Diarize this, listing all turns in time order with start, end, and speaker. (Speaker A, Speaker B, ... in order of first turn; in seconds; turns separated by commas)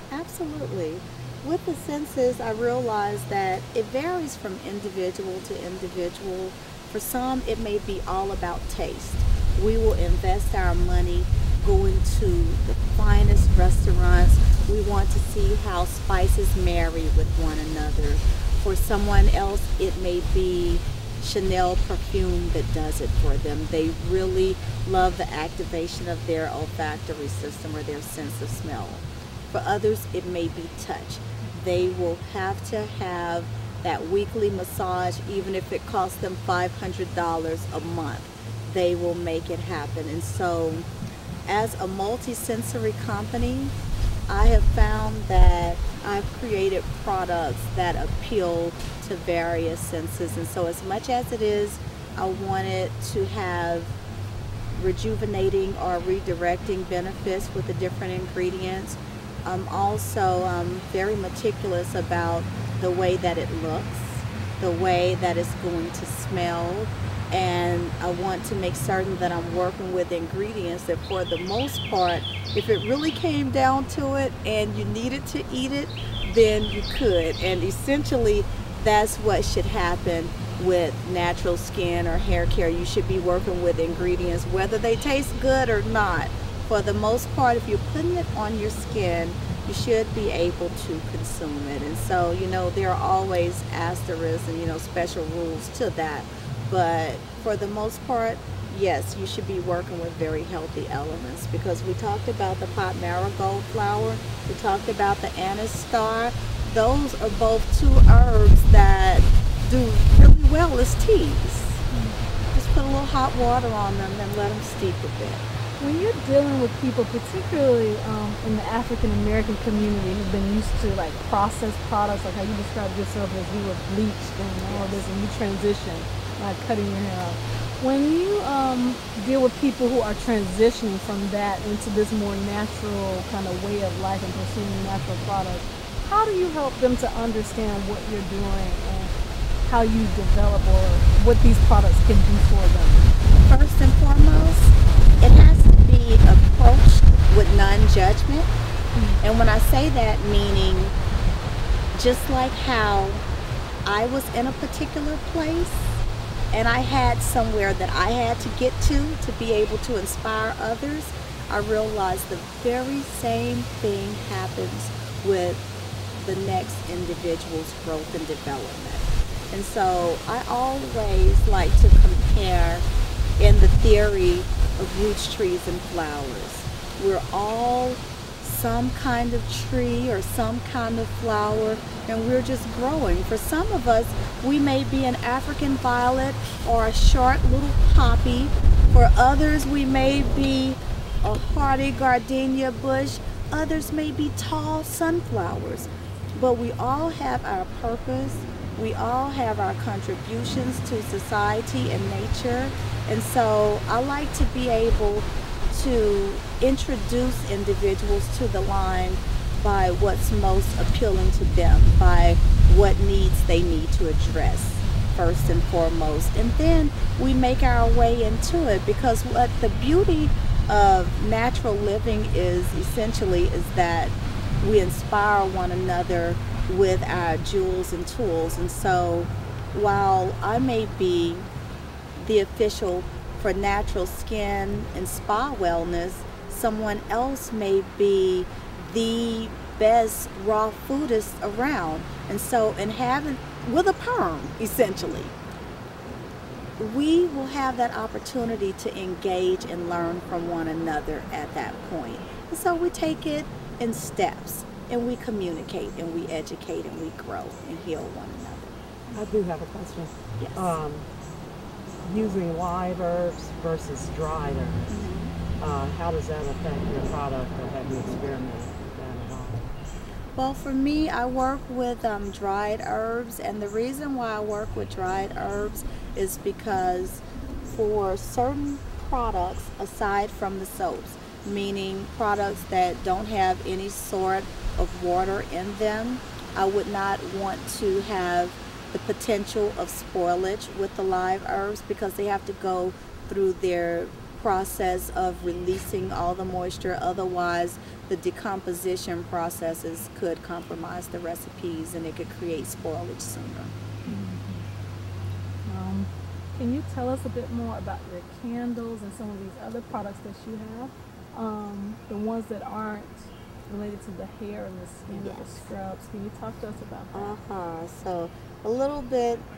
Speaker A: 0.1-40.9, Speaker A: 41.5-43.7, Speaker A: 44.3-53.9, Speaker A: 54.7-111.8, Speaker A: 112.5-115.4, Speaker B: 115.8-139.1, Speaker A: 124.7-125.0, Speaker B: 139.6-143.1, Speaker A: 143.4-148.5, Speaker A: 149.2-150.9, Speaker A: 151.9-153.2, Speaker A: 153.8-156.0, Speaker A: 156.5-172.8, Speaker A: 173.4-231.5, Speaker A: 232.2-245.3, Speaker A: 246.8-258.7, Speaker C: 259.1-261.1, Speaker A: 260.4-260.7, Speaker C: 262.0-265.1, Speaker A: 264.9-265.3, Speaker C: 265.6-269.7, Speaker A: 270.4-303.7, Speaker B: 304.1-304.6, Speaker B: 305.7-317.3, Speaker A: 315.1-315.6, Speaker A: 317.1-319.4